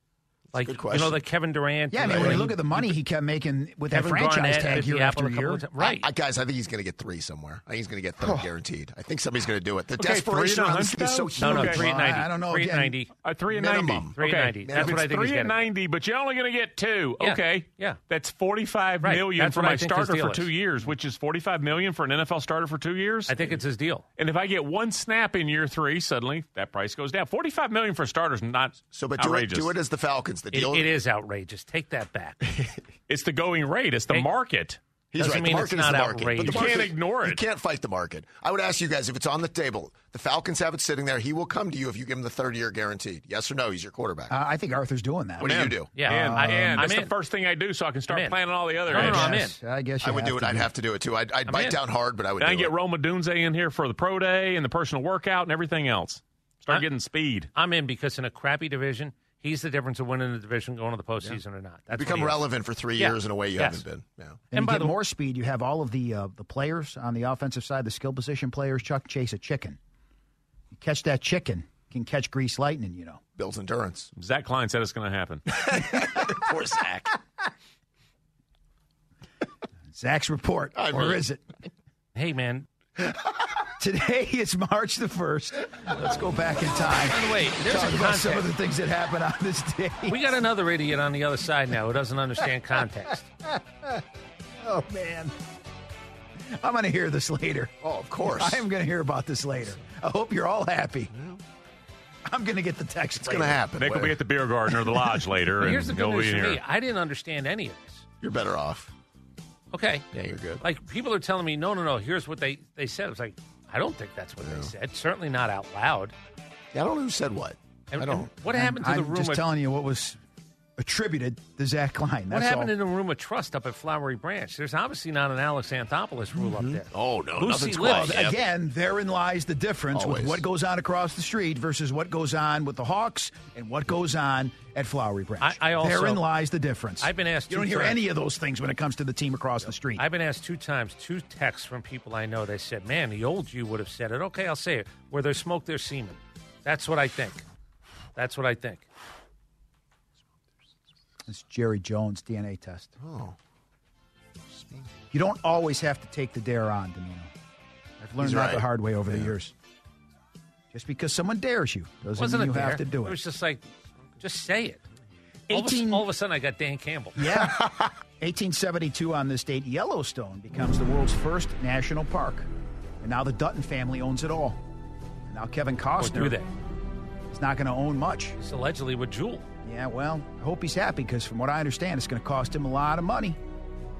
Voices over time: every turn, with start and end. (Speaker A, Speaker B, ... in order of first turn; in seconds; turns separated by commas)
Speaker A: 0.5-3.0, Speaker B: 0.6-1.2, Speaker C: 1.9-5.7, Speaker B: 2.0-2.5, Speaker A: 3.9-6.1, Speaker B: 5.8-11.7, Speaker C: 8.2-8.5, Speaker D: 10.0-11.8, Speaker C: 11.2-13.0, Speaker A: 11.4-13.1, Speaker D: 13.2-23.5, Speaker B: 13.5-15.1, Speaker A: 14.2-15.7, Speaker A: 17.2-18.0, Speaker A: 19.0-20.5, Speaker A: 23.3-24.1, Speaker D: 24.2-29.8, Speaker B: 28.9-30.9, Speaker A: 30.5-32.4, Speaker D: 33.1-34.8, Speaker B: 35.1-44.3, Speaker A: 35.2-36.9, Speaker D: 36.4-37.4, Speaker C: 44.3-46.8, Speaker B: 45.4-45.9, Speaker D: 45.5-49.3, Speaker A: 46.0-47.1, Speaker A: 48.1-48.4, Speaker A: 48.9-49.6, Speaker C: 48.9-50.7, Speaker B: 50.0-52.7, Speaker A: 51.5-51.8, Speaker D: 52.4-57.5, Speaker A: 57.5-62.4, Speaker B: 61.9-64.4, Speaker A: 63.0-63.8, Speaker C: 64.5-69.8, Speaker A: 64.5-65.0, Speaker C: 70.7-73.2, Speaker B: 73.4-74.1, Speaker D: 74.2-75.5, Speaker B: 75.5-77.2, Speaker C: 79.9-81.4, Speaker B: 80.8-81.2, Speaker A: 82.2-82.7, Speaker C: 83.8-90.4, Speaker A: 87.0-88.5, Speaker A: 90.1-93.3, Speaker C: 93.4-94.0, Speaker C: 94.6-95.3, Speaker C: 96.5-101.1, Speaker B: 97.8-98.6, Speaker B: 101.1-101.4, Speaker C: 102.3-103.6, Speaker B: 103.2-104.2, Speaker D: 103.8-106.6, Speaker A: 105.6-108.0, Speaker B: 108.2-108.9, Speaker A: 109.7-110.1, Speaker B: 110.1-110.6, Speaker A: 110.6-116.1, Speaker B: 114.4-114.7, Speaker B: 116.7-118.3, Speaker A: 117.9-119.5, Speaker C: 118.5-120.2, Speaker C: 120.8-122.7, Speaker A: 122.3-128.2, Speaker B: 126.4-128.4, Speaker C: 127.8-140.1, Speaker B: 129.9-130.4, Speaker A: 135.4-136.2, Speaker A: 137.0-138.0, Speaker A: 140.0-147.4, Speaker A: 148.2-148.9, Speaker C: 151.3-152.9, Speaker B: 153.0-153.4, Speaker C: 155.1-157.3, Speaker C: 158.0-159.5, Speaker B: 158.2-159.3, Speaker C: 160.7-163.2, Speaker A: 162.2-163.6, Speaker A: 164.2-164.8, Speaker C: 165.5-166.1, Speaker A: 165.5-167.3, Speaker C: 167.2-172.5, Speaker C: 173.0-174.6, Speaker C: 175.3-176.4, Speaker A: 176.0-176.5, Speaker C: 177.3-178.4, Speaker A: 178.4-179.5, Speaker C: 179.6-183.4